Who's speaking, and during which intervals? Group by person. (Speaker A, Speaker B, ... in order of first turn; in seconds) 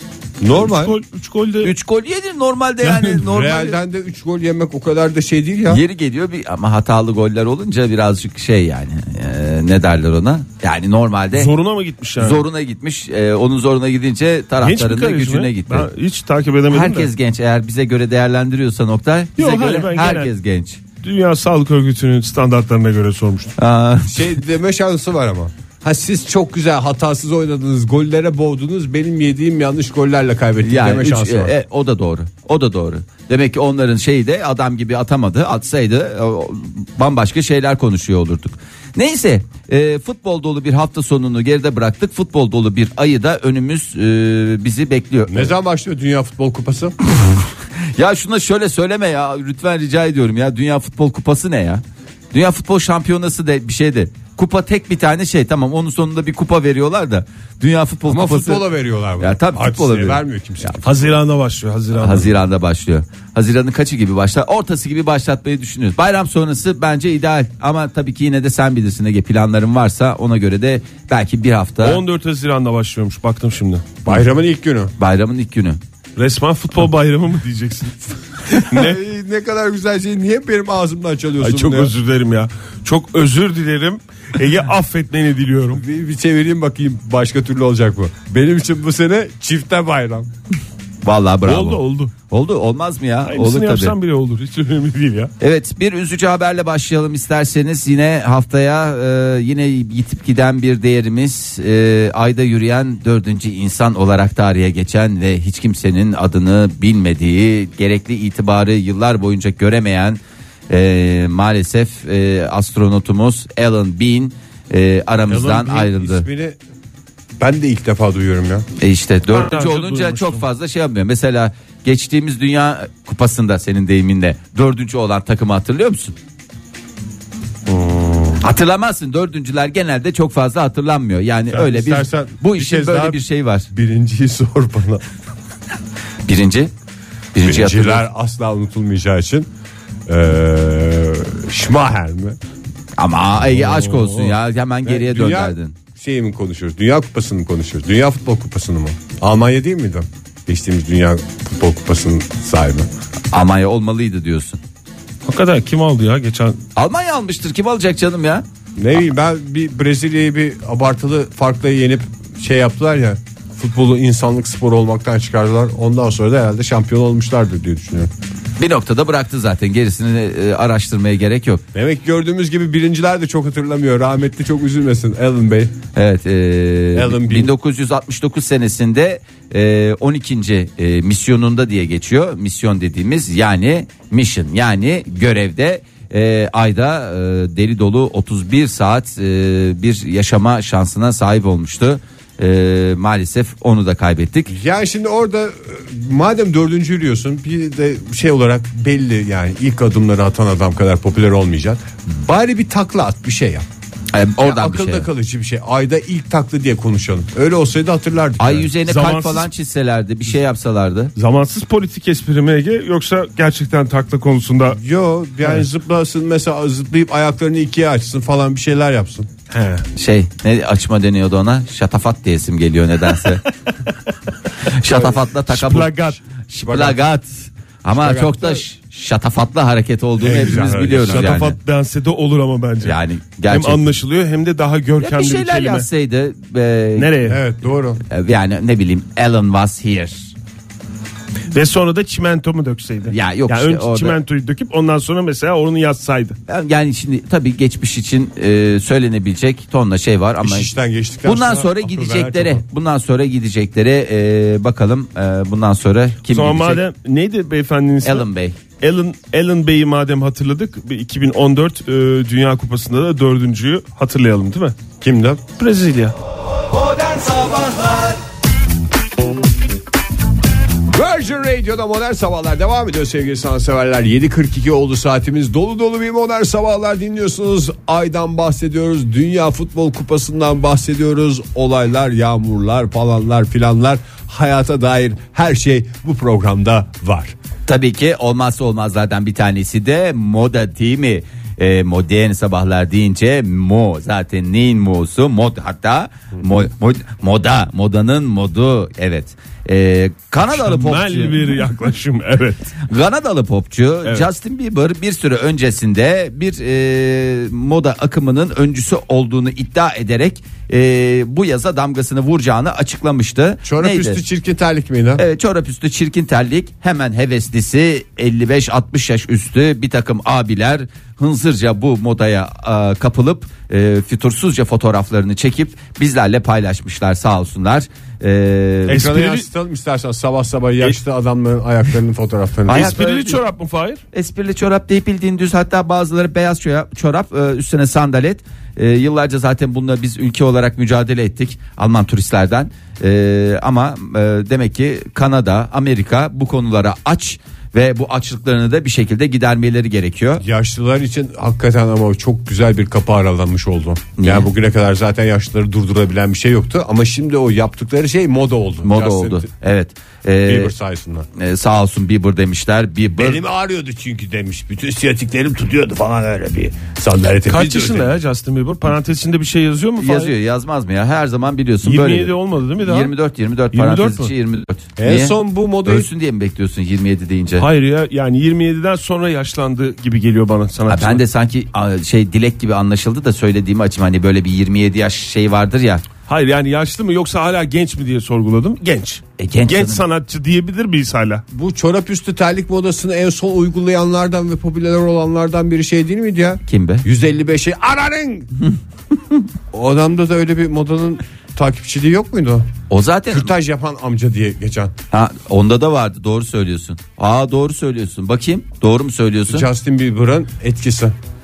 Speaker A: 0.4-0.9, 3.2-5.8, 24.1-31.5, 45.3-47.0, 58.1-60.9, 74.0-74.9, 78.7-81.9, 85.8-90.3, 115.3-116.6, 117.4-118.7, 127.7-128.4, 131.5-135.0, 137.4-139.5, 140.1-142.4, 144.8-152.9, 158.8-168.1, 171.7-175.7, 176.9-177.5, 194.5-203.7, 204.4-208.7, 214.7-219.3, 226.6-227.0, 227.9-228.6, 230.2-231.4, 237.2-238.0, 250.4-252.7, 265.0-265.4, 270.9-287.4, 313.6-315.2, 328.9-333.0, 350.4-359.5, 360.4-361.3, 363.2-368.1, 375.0-376.1, 391.5-398.5, 399.7-402.7, 403.3-404.9, 409.5-411.1
Speaker B: 0.5-1.7, 2.8-3.1, 11.3-12.4, 14.6-17.1, 19.4-20.3, 21.0-23.5, 60.8-62.4, 71.8-73.9, 76.2-79.0, 81.4-85.8, 91.5-92.1, 93.2-95.3, 119.3-120.4, 143.5-144.3, 155.2-156.6, 208.8-209.5, 211.2-214.8, 219.5-219.8, 224.8-226.2, 230.3-233.0, 233.5-235.9, 236.9-237.4, 241.5-246.4, 256.3-258.3, 258.8-264.8, 265.6-266.1, 300.5-302.8, 328.9-329.5, 332.7-334.0, 367.5-370.3, 371.8-373.1, 373.7-374.3, 377.6-381.2, 386.3-391.4
Speaker C: 1.6-3.8, 5.7-11.5, 12.2-15.9, 16.7-20.8, 23.6-24.3, 30.6-45.5, 47.1-47.4, 48.0-58.6, 59.2-60.8, 61.9-72.0, 75.0-75.8, 91.0-93.9, 95.4-116.2, 118.8-126.2, 128.4-133.7, 136.2-136.7, 137.3-138.1, 143.0-145.7, 153.3-154.6, 156.8-158.4, 168.6-171.6, 175.9-194.5, 204.1-205.1, 208.4-211.1, 219.9-223.4, 224.7-225.9, 226.5-231.6, 232.8-233.9, 235.0-237.1, 238.1-240.3, 243.1-244.2, 246.5-250.7, 251.2-256.8, 258.0-258.6, 287.6-301.5, 302.9-314.2, 315.2-329.0, 332.7-333.4, 334.1-350.4, 354.2-354.5, 358.8-360.7, 361.4-363.4, 370.0-377.6, 380.9-386.0, 389.4-390.0, 396.7-397.0, 402.9-403.5, 405.1-409.6